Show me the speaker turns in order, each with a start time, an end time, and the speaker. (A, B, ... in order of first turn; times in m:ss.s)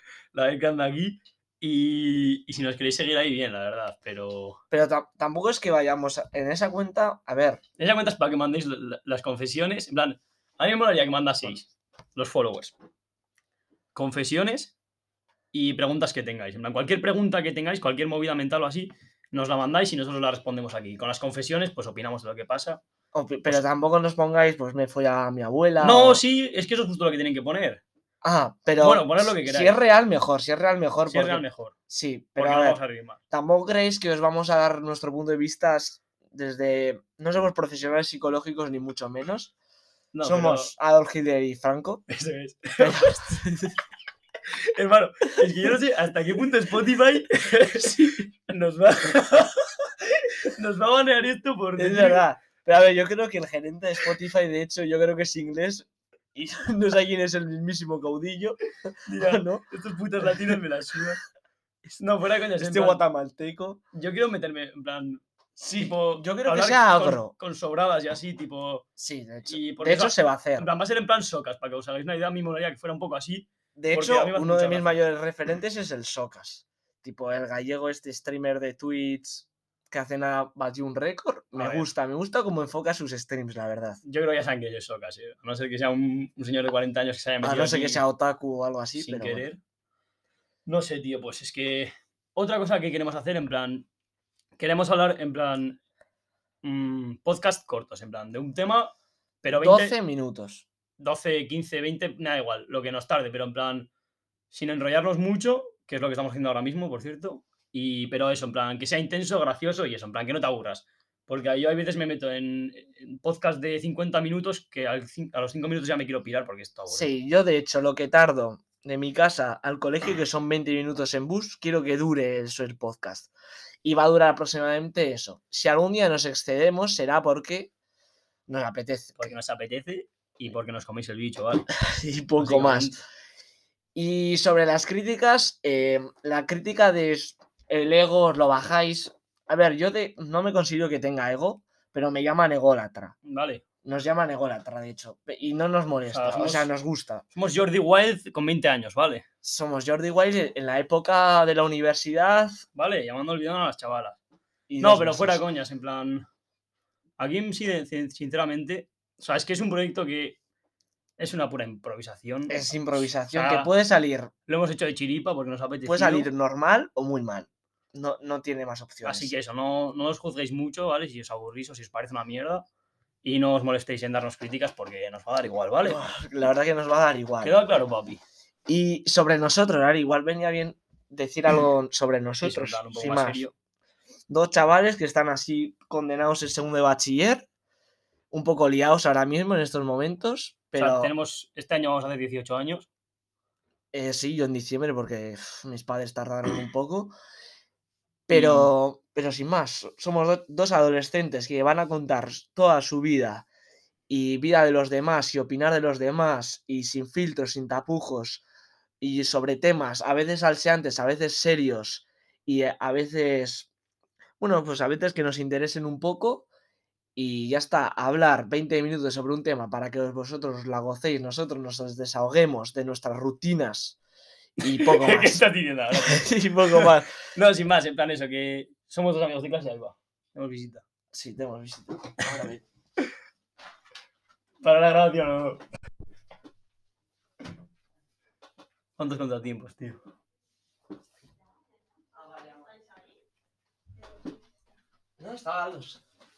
0:00.3-0:04.6 A
0:04.7-0:07.6 B
0:07.8-0:12.8 A
0:13.9-0:14.7 A
0:15.5-0:22.8 A
0:23.1-0:26.2 B
0:25.8-0:27.8 A
0:28.2-0:32.8 B
0:28.8-0:29.8 A
0:31.1-0:31.7 A
0:32.4-0:33.2 A
0:33.3-0:39.5 B
0:40.1-0:40.7 A
0:40.2-0:42.0 B
0:42.1-0:43.2 A
0:42.8-0:43.8 B
0:44.6-0:52.2 A
0:47.6-0:48.3 B
0:51.8-0:59.6 B
0:59.1-1:01.2 A
1:01.9-1:03.0 A
1:02.6-1:03.8 B
1:03.9-1:08.9 A
1:05.6-1:07.3 B
1:09.0-1:10.7 B
1:09.5-1:15.0 A
1:13.8-1:24.0 B
1:21.6-1:21.9 A
1:24.0-1:28.0 A
1:27.4-1:29.5 B
1:29.0-1:29.6 A
1:30.7-1:33.9 A
1:34.6-1:35.8 A
1:36.6-1:40.0 A
1:39.5-1:40.6 B
1:41.0-1:43.9 A
1:44.5-1:57.1 A
1:56.9-2:03.3 B
2:03.8-2:07.7 B
2:08.5-2:09.3 B
2:09.2-2:11.7 A
2:11.8-2:13.0 B
2:12.4-2:13.0 A
2:14.0-2:23.2 B
2:23.2-2:23.6 A
2:23.8-2:27.2 B
2:26.1-2:26.7 A
2:27.3-2:29.2 A
2:29.4-2:32.6 B
2:32.8-2:34.2 A
2:34.7-2:35.4 B
2:34.8-2:36.3 A
2:37.2-2:40.4 A
2:41.2-2:43.7 A
2:42.5-2:44.3 B
2:44.5-2:46.3 A
2:45.8-2:49.3 B
2:49.0-2:52.7 A
2:53.2-2:56.0 A
2:55.8-2:57.6 B
2:57.4-2:58.2 A
2:58.7-3:03.4 B
3:02.4-3:03.5 A
3:04.3-3:07.5 B
3:08.3-3:11.1 B
3:10.8-3:12.9 A
3:13.9-3:17.2 B
3:18.3-3:23.5 B
3:18.3-3:18.7 A
3:24.1-3:28.4 B
3:29.0-3:33.7 B
3:34.4-3:36.5 B
3:37.2-3:44.0 B
3:44.6-3:45.4 B
3:44.6-3:50.8 A
3:46.0-3:47.1 B
3:51.1-3:52.6 B
3:54.6-3:55.6 A
3:59.0-4:00.0 A
4:05.2-4:06.0 B